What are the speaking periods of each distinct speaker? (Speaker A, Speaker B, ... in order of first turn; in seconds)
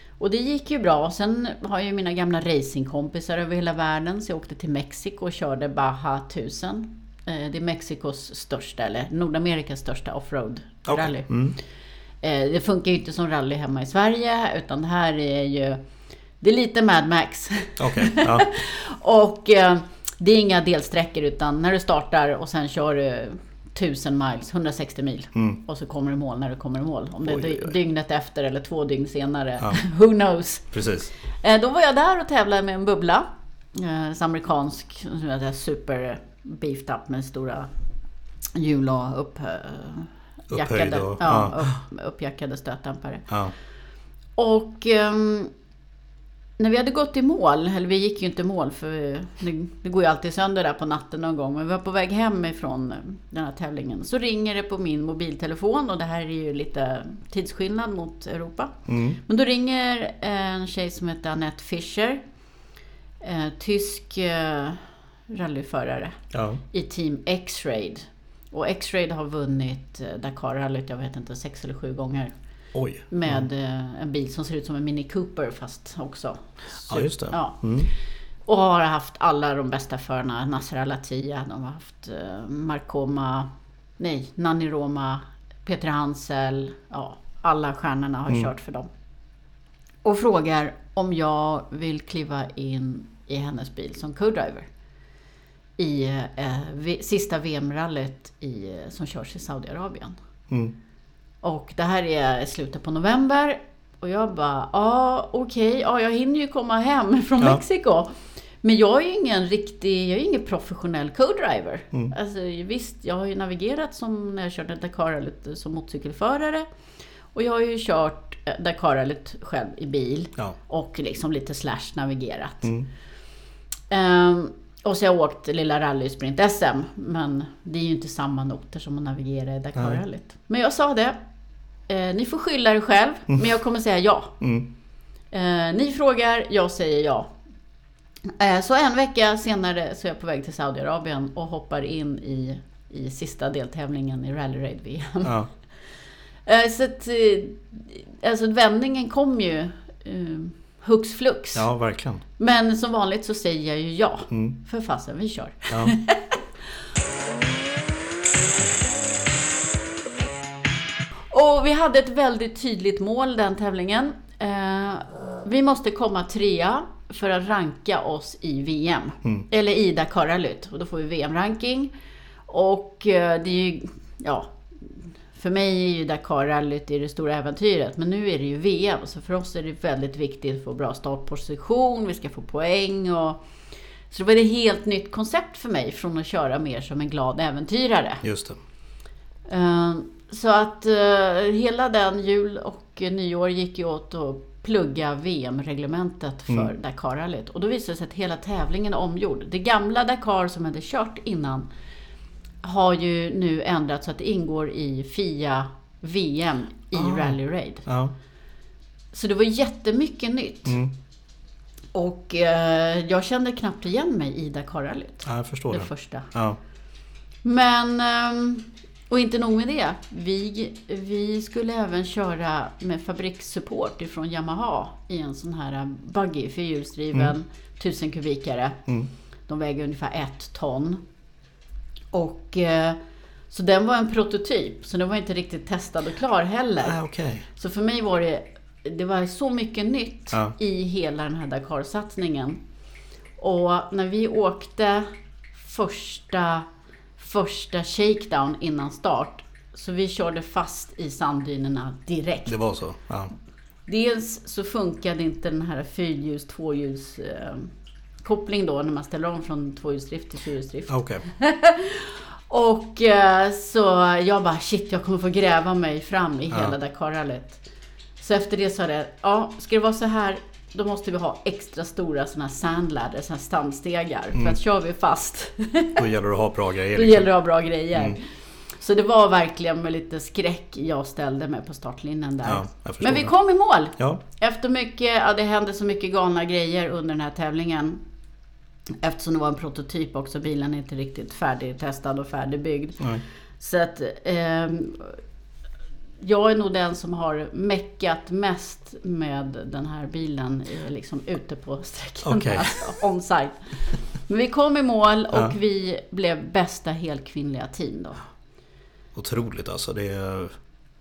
Speaker A: 0.2-11.3, 12.2-15.8, 16.4-30.7, 31.4-37.7, 38.5-43.3, 44.4-45.5, 46.6-62.2, 63.2-66.2, 66.7-72.3, 73.1-77.9, 78.5-88.9, 90.0-94.7, 95.8-100.2, 101.4-116.7, 117.3-122.7, 123.9-131.2, 131.9-134.4, 135.3-137.3, 138.3-145.3, 146.4-151.7, 152.4-156.4, 161.3-171.9, 172.5-183.4, 184.1-188.2, 189.5-201.7, 202.6-207.8, 209.1-210.8, 211.9-216.3, 217.4-228.8, 229.5-231.0, 232.1-233.0, 233.5-237.0, 237.5-242.6, 243.4-246.7, 247.2-252.6, 253.9-257.7, 258.2-267.6, 268.2-276.0, 276.9-288.0, 289.0-295.2, 296.2-308.2
Speaker B: 10.8-11.6, 17.8-18.5, 27.3-27.7, 30.7-31.1, 40.5-41.7, 58.9-59.2, 66.3-66.6, 72.7-73.4, 76.9-77.9, 100.5-100.7, 129.7-130.0, 134.4-134.7, 145.2-145.5, 151.5-152.2, 154.3-154.6, 188.2-188.6, 206.9-208.1, 210.7-210.9, 215.2-216.6, 236.8-237.5, 252.4-253.3, 260.9-261.2, 276.0-277.3, 282.4-283.3, 302.2-302.8, 309.1-310.5